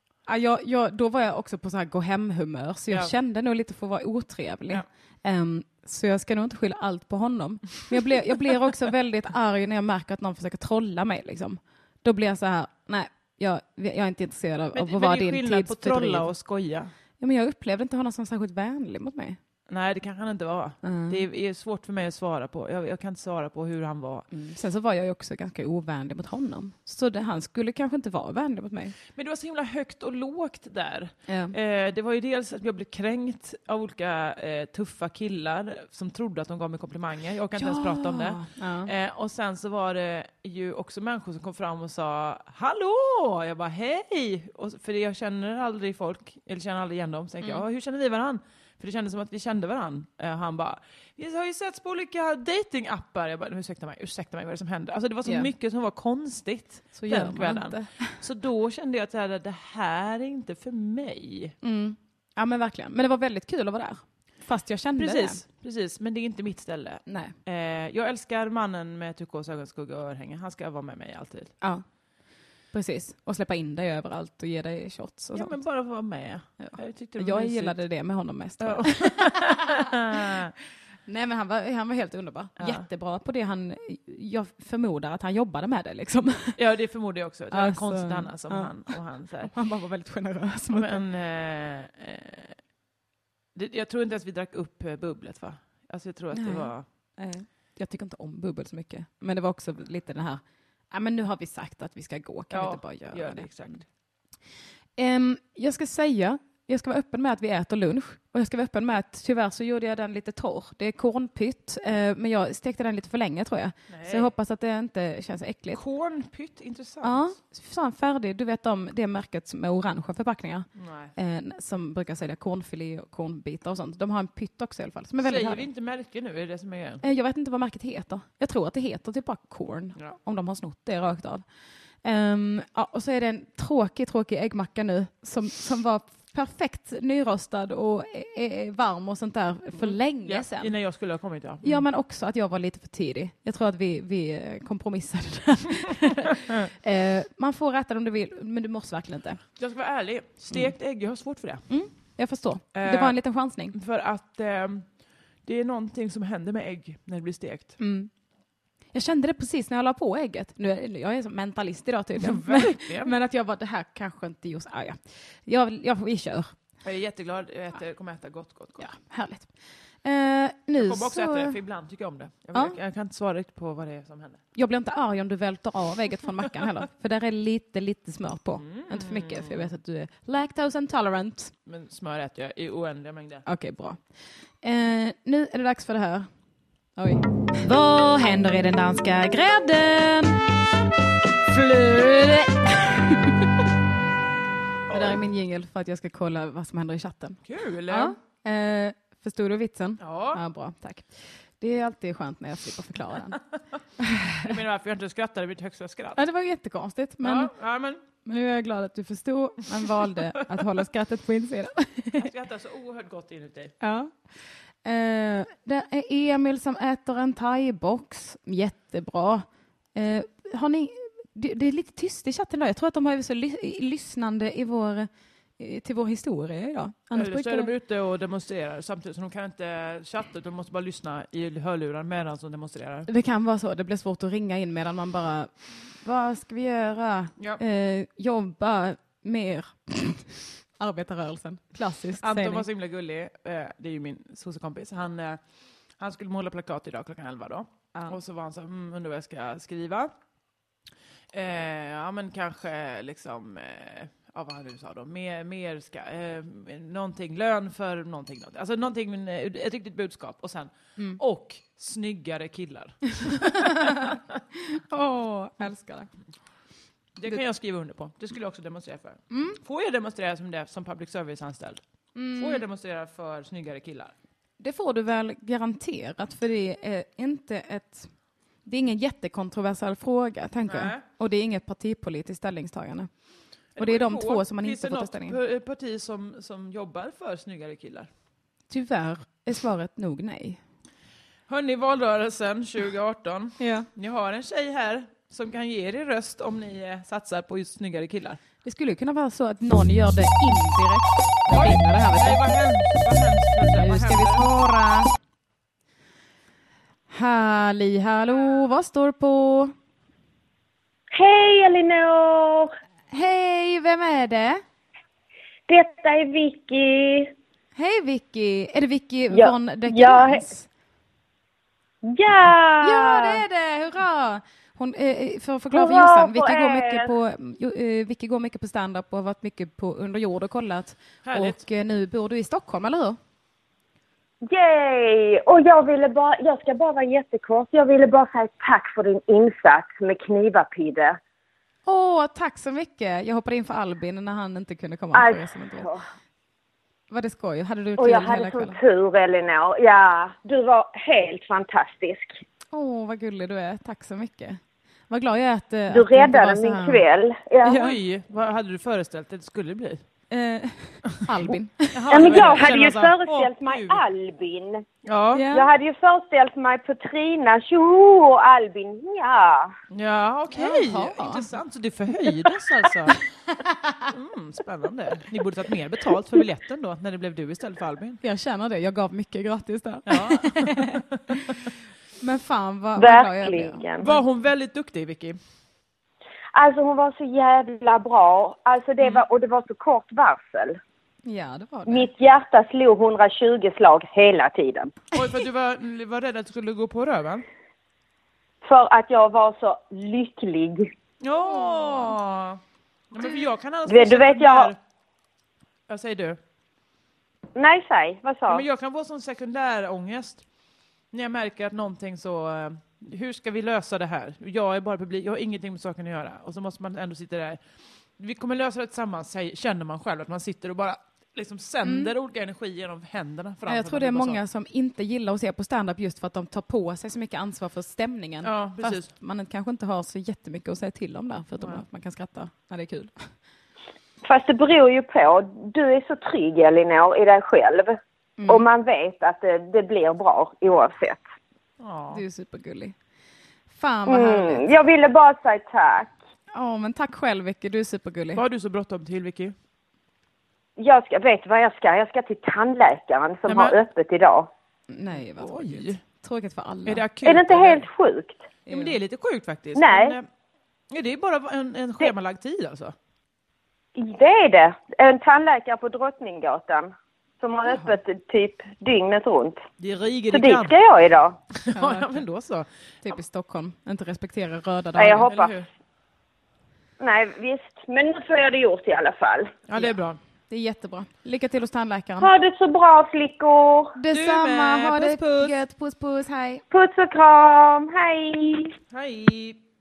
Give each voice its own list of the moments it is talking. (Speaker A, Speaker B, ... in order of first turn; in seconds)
Speaker A: 0.2-16.3, 17.2-19.4, 20.8-21.2, 24.3-28.9, 31.3-31.5, 37.5-38.9, 55.2-55.5, 56.9-58.2, 61.6-65.4, 67.1-67.3, 72.7-75.6, 76.6-80.4, 81.0-86.6, 87.5-91.0, 96.3-103.8, 105.0-115.8, 117.0-125.7, 127.0-131.4, 132.0-140.7, 141.6-149.4, 151.7-153.8, 157.8-158.1, 158.9-166.5, 168.8-171.6, 174.5-181.5, 183.4-184.0, 184.6-186.3, 186.9-190.4, 191.5-193.5, 194.9-203.4, 204.0-204.5, 206.2-207.5, 208.2-212.3, 213.8-214.2, 214.8-227.7, 233.1-242.7, 263.2-266.1, 269.3-269.6, 272.1-272.6, 274.6-278.1, 278.6-283.1, 283.8-285.4, 288.7-290.6, 293.6-293.9, 298.6-302.4, 303.7-305.1, 307.1-309.7, 313.1-314.6, 317.8-320.7, 322.8-333.2, 341.9-345.9, 347.1-348.8, 352.7-357.0, 360.3-362.5, 365.3-365.7, 370.5-371.4, 373.6-374.1, 378.2-381.6, 382.2-383.8, 391.2-392.1, 401.7-402.1, 421.8-422.1, 423.7-433.2, 438.4-438.6, 442.1-442.9, 443.7-444.7, 446.5-448.4, 454.9-457.0, 458.7-458.9, 471.7-472.1, 473.0-475.3, 480.5-482.3, 483.9-486.6
Speaker B: 14.7-16.9, 19.7-24.2, 29.1-61.5, 65.0-71.5, 75.3-77.8, 78.6-80.5, 82.6-82.8, 86.6-89.5, 90.7-92.6, 93.5-96.8, 102.5-103.8, 113.9-114.3, 115.7-117.3, 120.8-121.1, 125.2-127.0, 139.8-141.8, 149.6-151.7, 152.7-153.2, 153.7-154.9, 155.4-157.8, 162.2-163.1, 166.8-168.9, 170.8-174.4, 178.6-179.7, 181.7-183.4, 194.9-195.2, 197.4-198.1, 200.0-200.4, 204.4-206.2, 207.2-208.0, 212.2-213.7, 227.1-233.1, 242.2-245.4, 246.0-250.1, 251.3-264.2, 267.1-271.8, 272.4-274.1, 280.7-281.0, 283.8-288.1, 291.5-298.4, 301.5-304.4, 331.2-331.6, 357.6-360.0, 361.9-364.0, 365.0-365.5, 369.9-373.2, 374.1-378.2, 380.1-381.1, 384.0-385.4, 395.1-397.4, 401.2-404.8, 405.9-406.4, 408.5-410.4, 411.1-417.6, 418.2-424.4, 428.4-429.1, 441.8-442.2, 448.4-449.5, 453.5-453.8, 455.1-456.0, 456.9-457.8, 458.7-460.3, 460.9-462.9, 469.8-470.8, 471.5-472.7, 475.2-475.7, 479.7-480.2, 484.1-485.6, 488.9-489.6
Speaker C: 311.1-312.7, 315.7-317.3, 319.3-320.4, 322.0-323.4, 325.7-327.1, 334.4-341.2, 345.1-346.0, 348.0-352.4, 355.9-357.9, 362.1-364.9, 365.5-369.7, 383.0-384.1, 386.5-390.8, 391.9-394.9, 398.6-400.9, 403.9-404.7, 407.5-408.6, 434.2-441.2, 444.1-446.1, 450.8-454.5, 457.2-458.4, 459.7-460.1, 463.9-469.6, 470.3-471.4, 475.0-475.5, 477.0-479.6, 482.2-483.9, 486.7-488.7